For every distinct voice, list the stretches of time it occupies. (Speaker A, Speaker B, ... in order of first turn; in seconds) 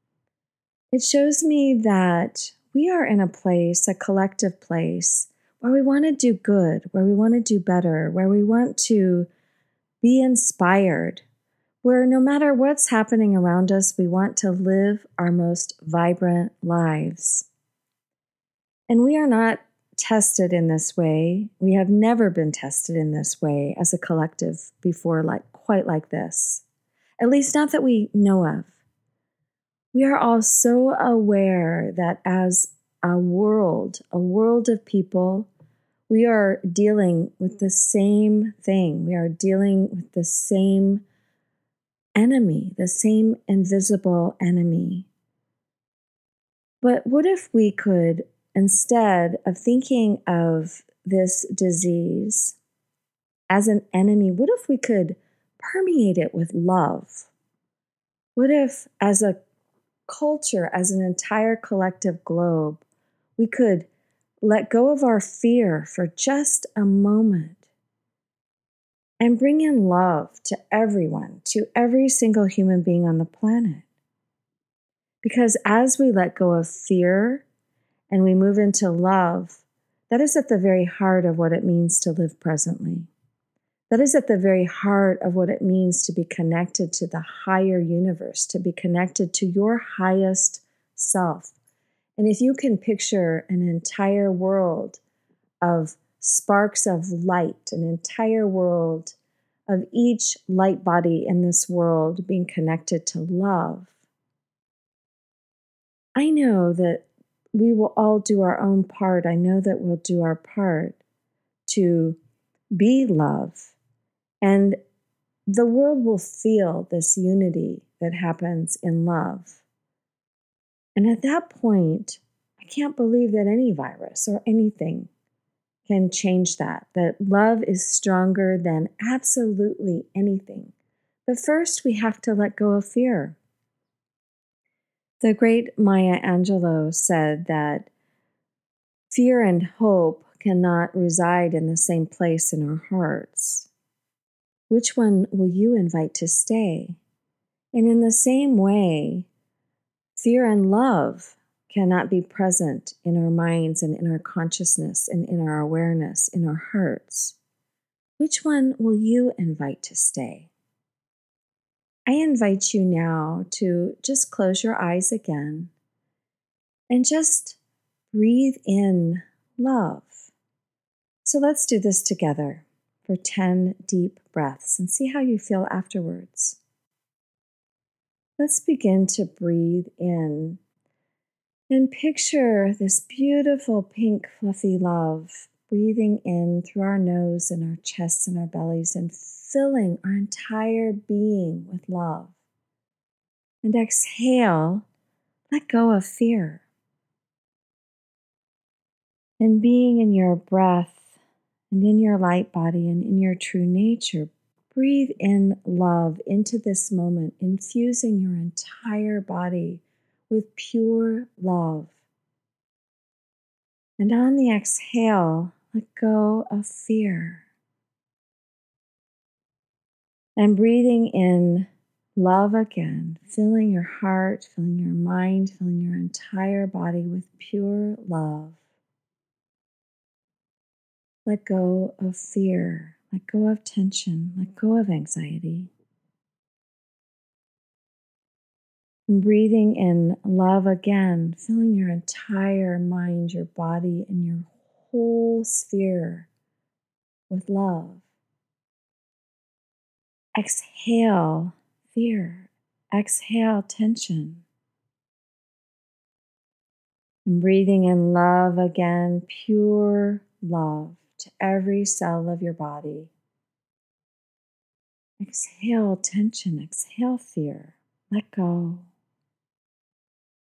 Speaker A: 0.9-9.3, 10.0-11.2, 11.8-17.5, 18.9-26.6, 27.2-28.8, 29.9-35.5, 36.1-41.0, 42.1-45.1, 46.8-52.6, 53.5-57.3, 58.4-59.4, 60.1-62.8, 63.4-63.9, 64.4-67.6, 69.2-73.8, 75.2-77.4, 78.1-83.1, 83.9-91.5, 92.2-95.0, 95.6-99.2, 99.7-103.9, 106.2-111.0, 111.7-112.2, 112.7-113.7, 114.4-114.8, 115.5-119.6, 121.0-125.1, 125.8-130.7, 131.3-133.4, 135.2-137.9, 139.1-143.7, 144.7-147.0, 147.7-149.3, 150.2-157.4, 158.2-160.5, 162.1-165.7, 166.9-167.6, 168.1-170.3, 171.2-176.6, 178.4-180.6, 181.7-192.3, 193.6-194.8, 195.5-196.6, 199.4-201.1, 201.7-212.0, 214.0-217.4, 220.4-228.6, 231.2-235.7, 239.1-246.3, 247.3-248.0, 250.3-254.4, 257.2-263.1, 265.2-268.9